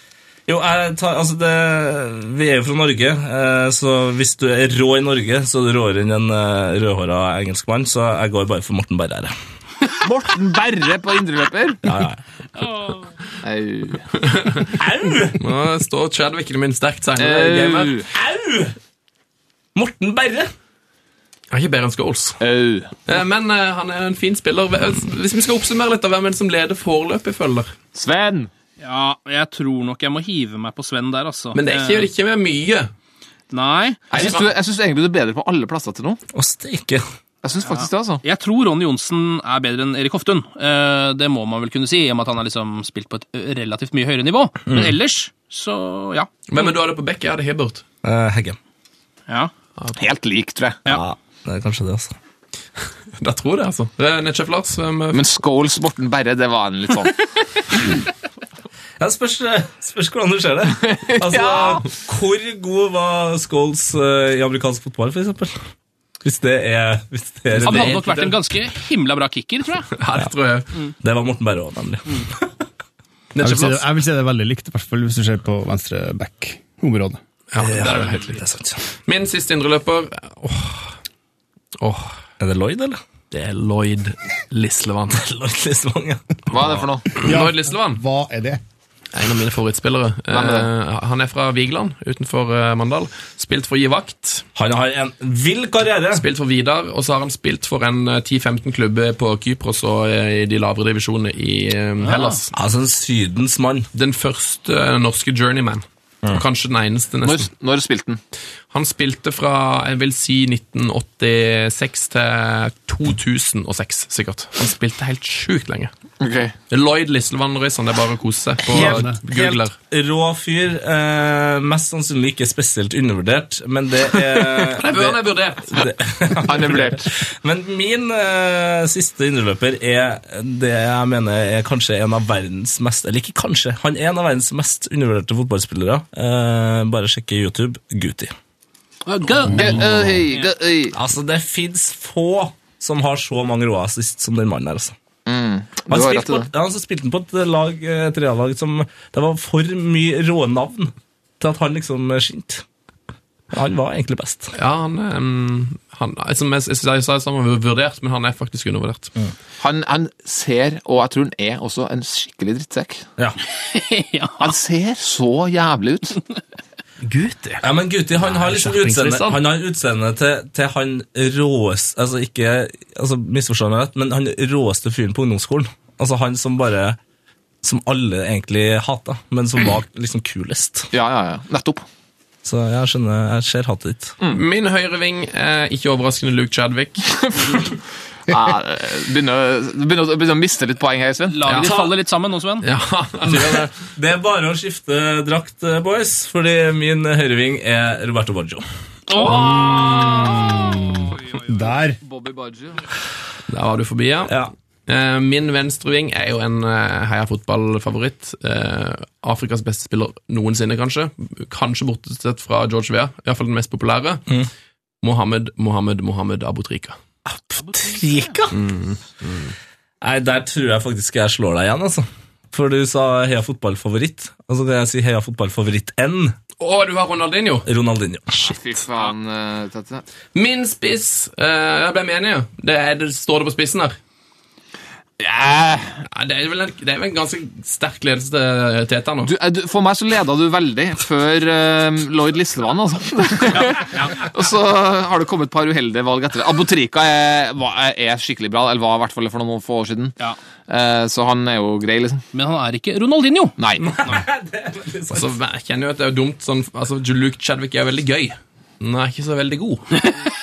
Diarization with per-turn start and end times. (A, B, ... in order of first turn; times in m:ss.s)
0:00.5-0:09.3 A
0:10.0-0:11.8 B
0:11.8-0:12.2 A
0:12.6-0:13.0 C
0:13.4-0:14.2 B
0:14.3-0:14.7 D
0:14.8-0:15.4 A
0:15.4-0:17.9 D
0:17.2-0:18.0 B
0:18.0-0:18.7 A
0:19.7-0:20.5 A
0:21.5-0:22.4 D
0:22.4-0:23.0 B
0:23.1-0:27.7 D
0:27.9-0:28.5 B
0:28.8-0:32.1 C
0:31.5-0:32.9 D
0:33.5-0:34.0 C
0:34.1-0:36.2 B
0:34.1-0:34.4 D
0:36.3-0:37.0 A
0:37.4-0:38.2 B
0:37.6-0:46.3 C
0:44.7-0:45.0 A
0:46.5-0:47.8 D
0:48.0-0:48.6 A
0:50.0-0:50.8 B
0:50.9-0:52.1 A
0:53.2-0:55.3 D
0:55.1-0:57.3 B
0:59.0-1:05.5 A
1:00.8-1:01.9 B
1:06.2-1:08.0 A
1:07.5-1:08.4 D
1:07.6-1:09.9 C
1:09.9-1:10.7 D
1:11.0-1:12.4 A
1:13.3-1:13.9 D
1:13.4-1:17.2 E
1:17.5-1:18.4 D
1:17.6-1:18.8 A
1:19.0-1:20.9 D
1:21.8-1:22.2 D
1:22.4-1:23.0 A
1:23.3-1:25.2 D
1:25.1-1:26.8 A
1:26.5-1:27.2 B
1:27.2-1:28.0 D
1:27.2-1:28.6 E
1:29.1-1:34.4 D
1:30.3-1:30.7 B
1:34.6-1:36.3 A
1:36.1-1:42.5 D
1:42.0-1:42.3 C
1:42.5-1:43.9 A
1:43.9-1:47.5 D
1:47.2-1:48.2 B
1:48.7-1:55.9 D
1:56.2-1:56.6 B
1:56.7-1:59.7 D
1:58.6-2:18.3 A
1:58.8-1:59.1 E
2:04.6-2:05.9 D
2:06.4-2:07.1 B
2:19.0-2:20.5 C
2:19.4-2:20.9 B
2:19.6-2:20.2 A
2:20.9-2:24.9 A
2:25.2-2:26.5 B
2:25.9-2:32.6 A
2:33.5-2:34.5 A
2:34.5-2:39.1 D
2:39.6-2:43.1 B
2:43.5-2:44.5 C
2:44.4-2:46.2 B
2:47.0-2:47.6 D
2:47.6-2:57.0 A
2:48.2-2:49.4 D
2:57.6-3:00.9 A
3:00.9-3:01.8 B
3:02.4-3:04.2 A
3:04.3-3:07.0 D
3:07.2-3:07.7 B
3:08.2-3:11.4 B
3:11.3-3:12.6 C
3:11.4-3:11.8 D
3:11.6-3:11.9 A
3:12.6-3:13.7 D
3:13.2-3:18.6 A
3:19.1-3:21.2 C
3:19.2-3:19.6 D
3:20.3-3:20.8 E
3:21.4-3:22.0 E
3:21.7-3:22.8 B
3:23.5-3:34.2 D
3:35.0-3:37.0 D
3:37.2-3:38.6 A
3:37.6-3:38.4 C
3:38.5-3:39.5 D
3:40.0-3:46.4 A
3:46.6-3:47.7 D
3:47.6-3:48.4 A
3:48.3-3:50.0 B
3:50.3-3:54.0 D
3:55.2-3:56.0 B
3:56.0-3:59.3 D
3:59.2-4:10.2 B
4:10.7-4:12.2 B
4:12.3-4:13.6 C
4:13.6-4:14.0 B
4:13.8-4:15.4 A
4:15.1-4:20.1 D